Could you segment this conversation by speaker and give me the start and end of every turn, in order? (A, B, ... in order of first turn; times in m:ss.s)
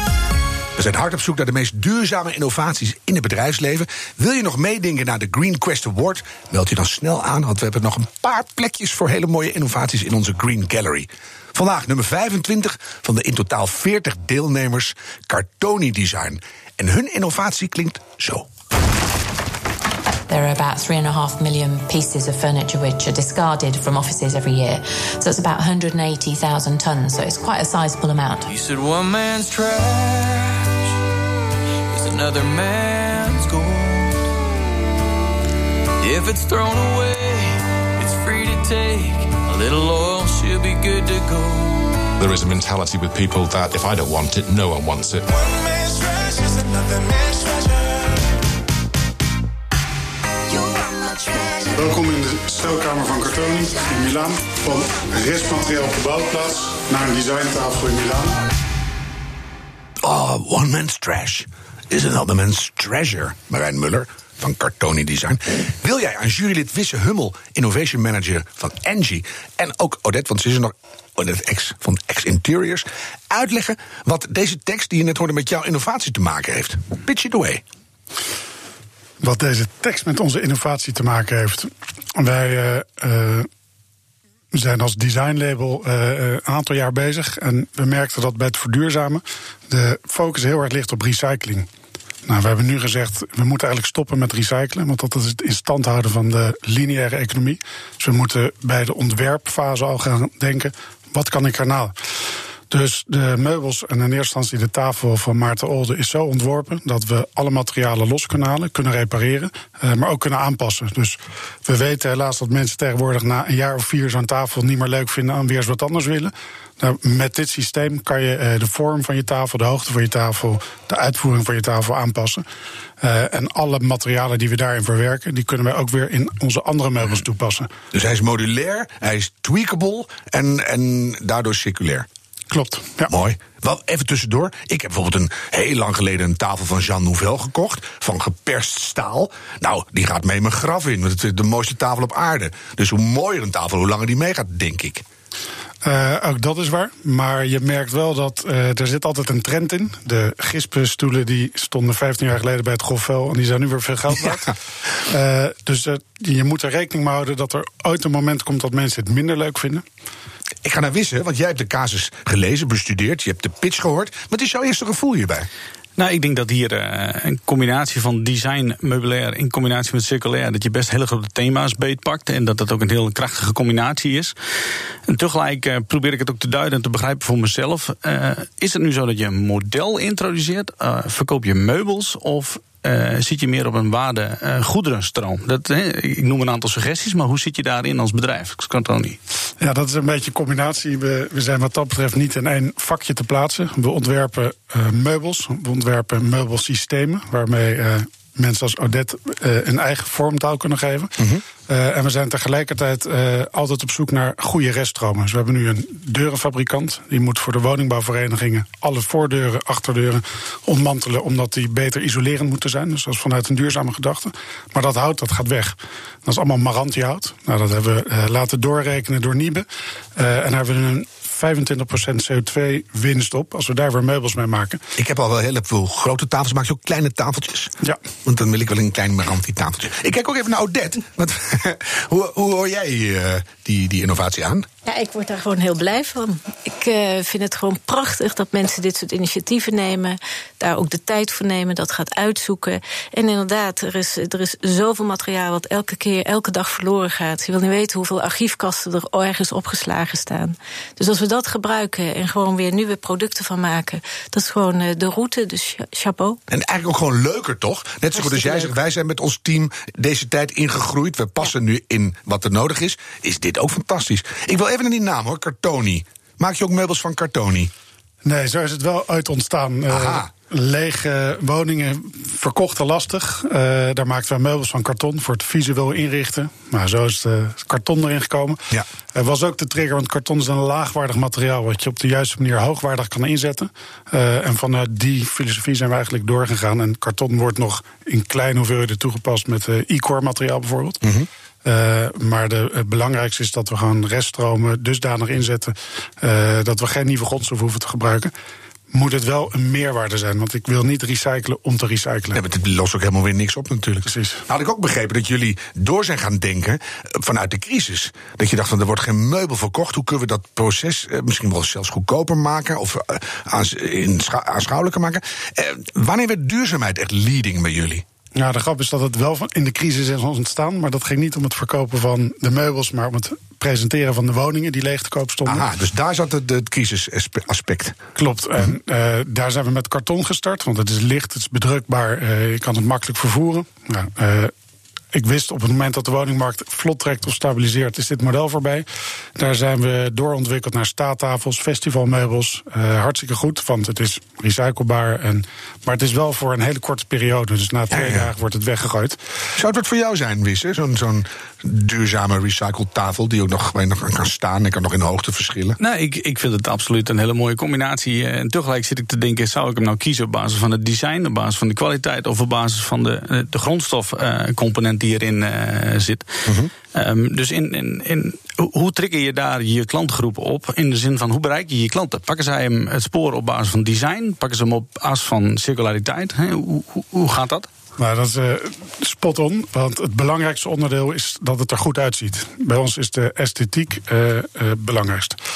0:00.8-0:18.5 A
0:20.3-0:28.5 B
0:28.5-0:30.7 C
0:31.9-0:34.3 C
0:36.0-0:42.1 C
0:42.2-0:45.5 D
0:51.7-0:58.4 E
1:00.0-1:17.6 A
1:19.2-1:23.5 E
1:24.5-1:31.7 E
1:32.3-1:41.9 E
1:42.7-2:02.4 E
2:03.0-2:07.7 E
2:07.9-2:12.1 A
2:12.5-2:13.1 E
2:13.1-2:25.0 A
2:25.8-2:39.8 E
2:40.6-2:45.5 A
2:46.0-2:54.3 F
2:55.1-3:09.2 F
3:09.6-3:44.8 E
3:21.2-3:21.4 A
3:45.0-3:47.7 A
3:48.2-3:54.7 A
3:54.8-4:16.4 G
4:16.5-4:27.7 A
4:18.2-4:18.7 G
4:28.2-4:38.6 E
4:29.9-4:30.3 A
4:39.2-4:51.0 E
4:51.0-4:51.3 A
4:51.6-4:58.3 E
4:58.9-5:02.4 E
5:02.3-5:18.0 A
5:04.1-5:04.4 E
5:18.4-5:25.7 E
5:25.5-5:28.0 A
5:28.2-5:34.5 E
5:35.1-5:49.2 E
5:47.9-5:48.3 A
5:49.6-5:55.8 A
5:55.8-6:06.4 F
6:06.5-6:06.7 A
6:06.9-6:17.7 F
6:18.0-6:25.4 E